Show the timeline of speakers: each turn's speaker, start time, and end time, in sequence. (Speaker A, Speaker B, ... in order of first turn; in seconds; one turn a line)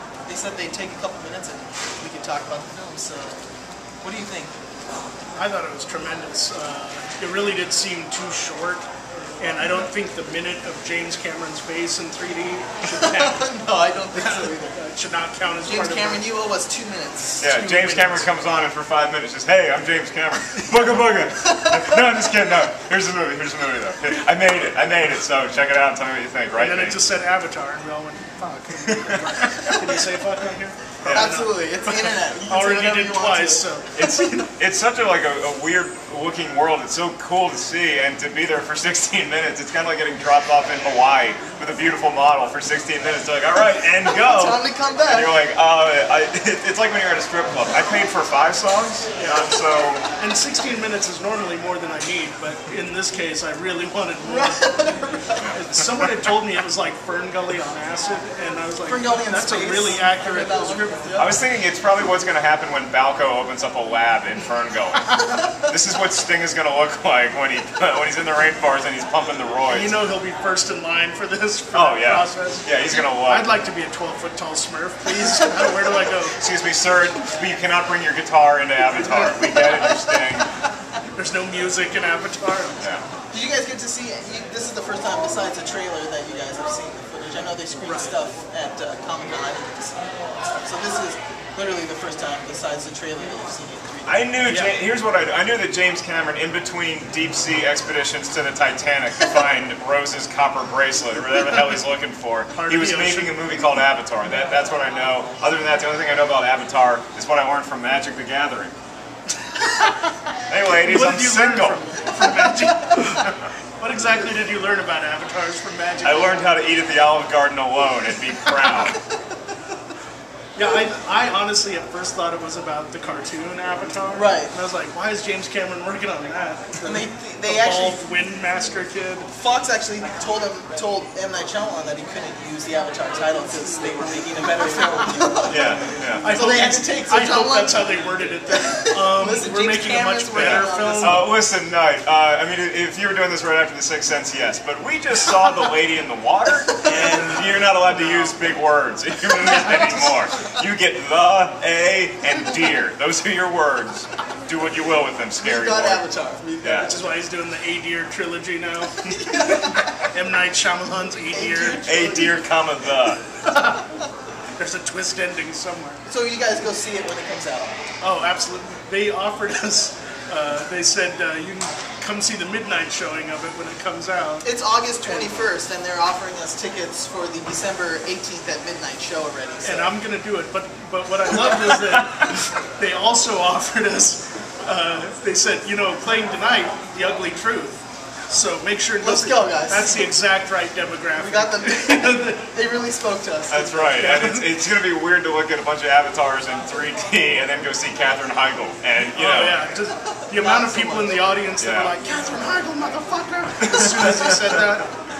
Speaker A: 0.3-3.4
Speaker A: 4.0-4.5
Speaker B: 5.3-8.8
Speaker B: 9.4-13.5
Speaker C: 9.6-9.9
Speaker A: 13.0-14.8
Speaker B: 14.1-16.2
Speaker A: 15.7-17.5
Speaker C: 17.4-27.0
Speaker B: 17.4-18.3
Speaker A: 21.4-22.0
Speaker B: 26.5-34.5
Speaker C: 28.9-29.1
Speaker A: 29.4-30.0
Speaker C: 31.0-31.3
Speaker A: 31.1-33.6
Speaker C: 34.0-50.0
Speaker A: 44.0-45.3
Speaker B: 50.2-54.9
Speaker A: 54.2-55.5
Speaker C: 55.4-56.0
Speaker B: 55.5-61.1
Speaker A: 58.8-61.4
Speaker C: 61.1-70.0
Speaker B: 69.7-76.4
Speaker C: 71.7-73.5
Speaker C: 76.4-80.5
Speaker A: 79.2-80.1
Speaker B: 81.2-82.8
Speaker A: 83.3-94.3
Speaker B: 87.8-88.1
Speaker C: 94.0-108.7
Speaker B: 94.4-94.8
Speaker B: 102.5-103.5
Speaker B: 109.6-109.9
Speaker C: 110.5-111.8
Speaker B: 110.8-116.5
Speaker C: 116.0-119.0
Speaker A: 118.6-119.0
Speaker B: 120.5-129.3
Speaker A: 124.1-124.5
Speaker A: 126.8-128.0
Speaker A: 129.3-137.9
Speaker C: 135.5-136.3
Speaker B: 136.2-141.3
Speaker A: 138.5-141.3
Speaker C: 140.3-156.0
Speaker A: 146.9-147.3
Speaker B: 146.9-148.4
Speaker B: 149.4-150.2
Speaker A: 155.4-157.0
Speaker C: 156.6-156.9
Speaker B: 156.8-161.8
Speaker A: 159.2-159.8
Speaker A: 161.3-162.4
Speaker C: 161.8-163.2
Speaker B: 163.4-163.8
Speaker B: 164.6-166.0
Speaker A: 166.1-167.8
Speaker B: 168.0-174.4
Speaker A: 174.4-179.9
Speaker B: 175.0-175.3
Speaker B: 179.6-187.8
Speaker C: 181.7-182.0
Speaker B: 188.3-192.4
Speaker A: 189.0-190.1
Speaker A: 191.1-194.2
Speaker C: 193.5-199.6
Speaker B: 194.0-194.5
Speaker B: 199.1-204.9
Speaker A: 200.3-201.2
Speaker C: 201.6-201.9
Speaker C: 203.6-204.6